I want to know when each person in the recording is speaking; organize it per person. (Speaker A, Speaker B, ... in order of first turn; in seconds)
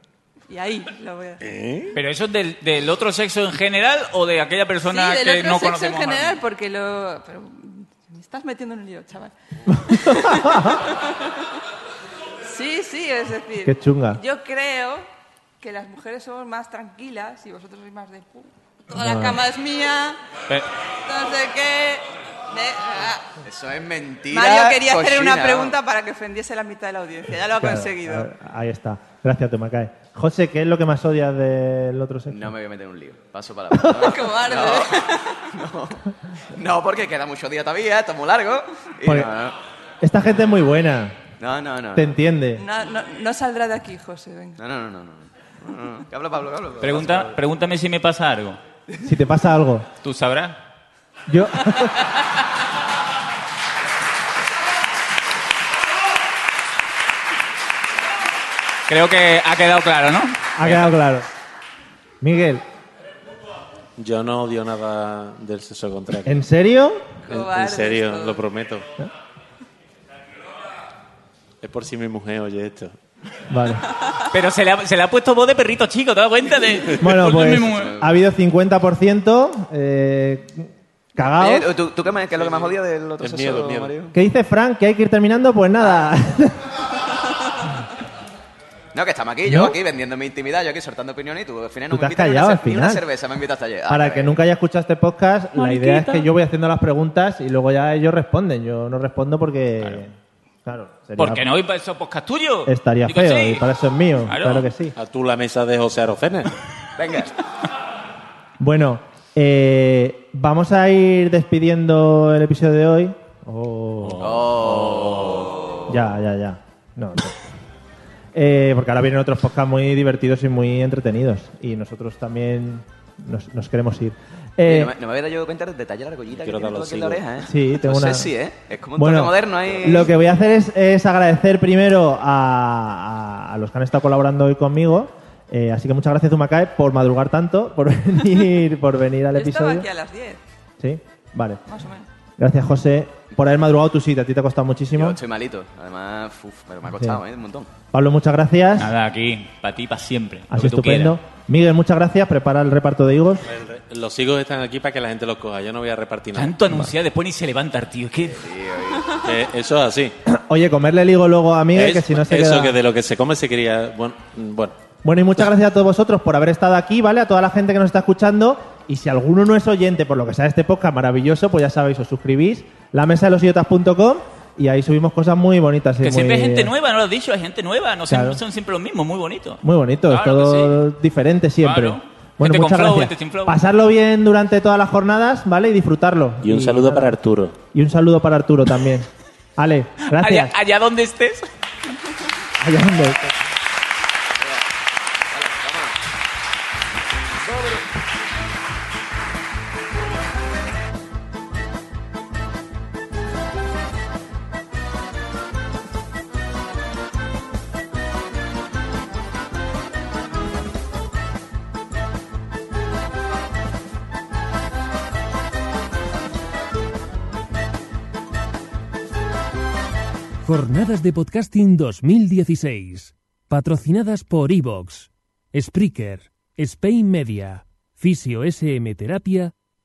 Speaker A: 0.5-1.4, 4.8-11.6, 12.4-15.1, 15.6-20.2, 21.1-23.3, 24.3-28.3, 34.0-35.5, 42.6-44.6, 67.2-68.5, 139.3-140.4, 141.7-142.1
Speaker B: 1.4-2.0, 64.0-66.4, 67.3-68.9, 71.6-73.0, 82.4-83.9, 105.0-106.5, 114.0-115.5, 126.3-127.2, 153.4-156.6, 159.2-160.2, 161.7-164.8, 186.4-187.6
Speaker C: 1.9-6.4, 46.8-48.6, 50.0-50.6, 58.9-60.9, 74.3-77.9, 101.2-103.7, 104.3-104.7, 148.8-151.2, 156.3-158.5, 176.0-180.8, 181.6-183.6, 190.1-191.5
Speaker D: 9.7-10.8, 13.7-14.2, 18.9-19.4, 27.6-32.5, 39.0-39.3, 40.0-41.2, 42.0-42.6, 49.0-49.9, 51.3-52.1, 60.6-61.3, 62.2-62.6, 66.3-67.1, 73.5-73.9, 77.0-81.7, 84.1-86.8, 89.5-89.8, 91.9-93.0, 93.9-100.1, 100.7-101.5, 102.7-104.9, 108.6-114.5, 115.9-117.5, 118.3-124.9, 127.5-128.3, 129.0-139.9, 140.8-141.6, 142.4-145.2, 147.9-148.9, 150.5-153.5, 160.3-162.8, 165.0-176.7, 178.1-178.4, 179.6-187.2, 187.7-190.5, 192.6-193.4
Speaker E: 23.4-25.8, 32.3-39.6, 41.4-42.2, 44.6-47.4, 77.7-78.2, 81.3-84.1, 88.9-94.4, 107.0-107.3, 114.2-115.9, 124.7-130.1, 144.9-147.7, 158.3-159.2, 195.3-195.9, 197.5-197.8
Speaker F: 220.4-229.5